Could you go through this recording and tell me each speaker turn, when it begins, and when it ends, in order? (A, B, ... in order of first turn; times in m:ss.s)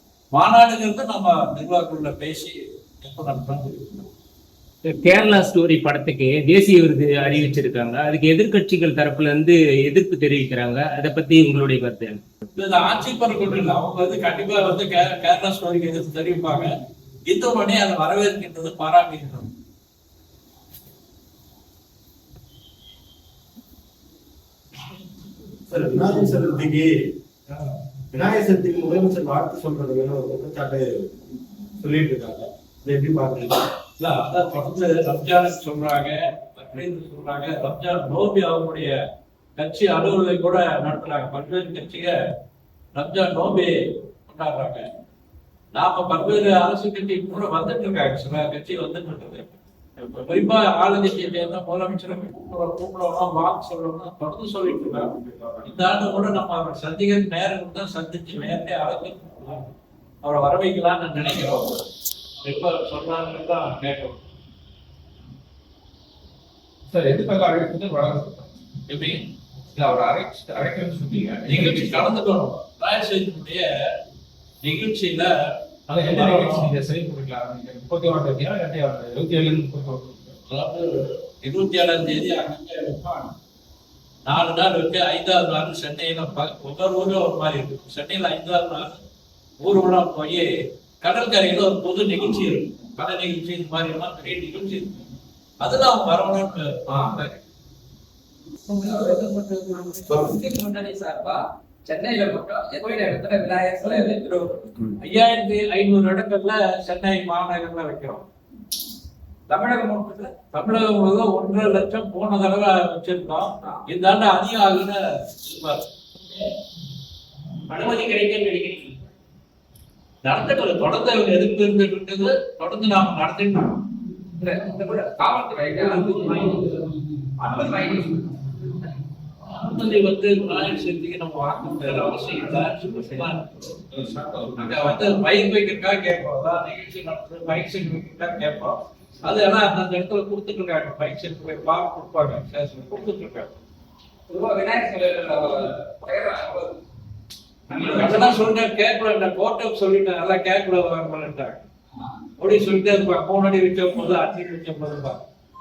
0:00.3-0:04.0 A
0:04.8-0:12.2 B
0:12.5-0:16.7 A
0:17.3-0:19.5 A
0:25.7-0:27.1 C
0:28.1-0:31.1 C
0:31.8-0:33.6 C
0:34.0-0:39.0 A
0:39.6-0:42.2 A
0:42.9-0:44.8 A
0:45.7-0:59.7 A
1:00.2-1:01.8 A
1:02.4-1:04.2 A
1:06.9-1:08.5 D
1:08.9-1:09.2 A
1:09.7-1:12.1 D
1:11.5-1:13.7 A
1:14.6-1:15.3 A
1:15.9-1:20.4 D
1:15.9-1:16.7 A
1:20.5-1:23.3 A
1:24.2-1:29.0 A
1:29.6-1:30.5 A
1:31.0-1:35.0 A
1:35.6-1:36.7 A
1:38.7-1:44.4 E
1:45.0-1:48.3 A
1:49.5-1:50.3 E
1:50.4-1:55.9 A
1:57.7-1:58.9 B
2:00.2-2:03.8 A
2:04.4-2:06.8 E
2:05.8-2:06.6 D
2:07.4-2:08.0 D
2:07.4-2:08.1 E
2:09.4-2:13.6 A
2:13.9-2:15.1 D
2:14.6-2:23.6 A
2:24.3-2:26.7 E
2:27.8-2:31.6 A
2:32.4-2:35.2 A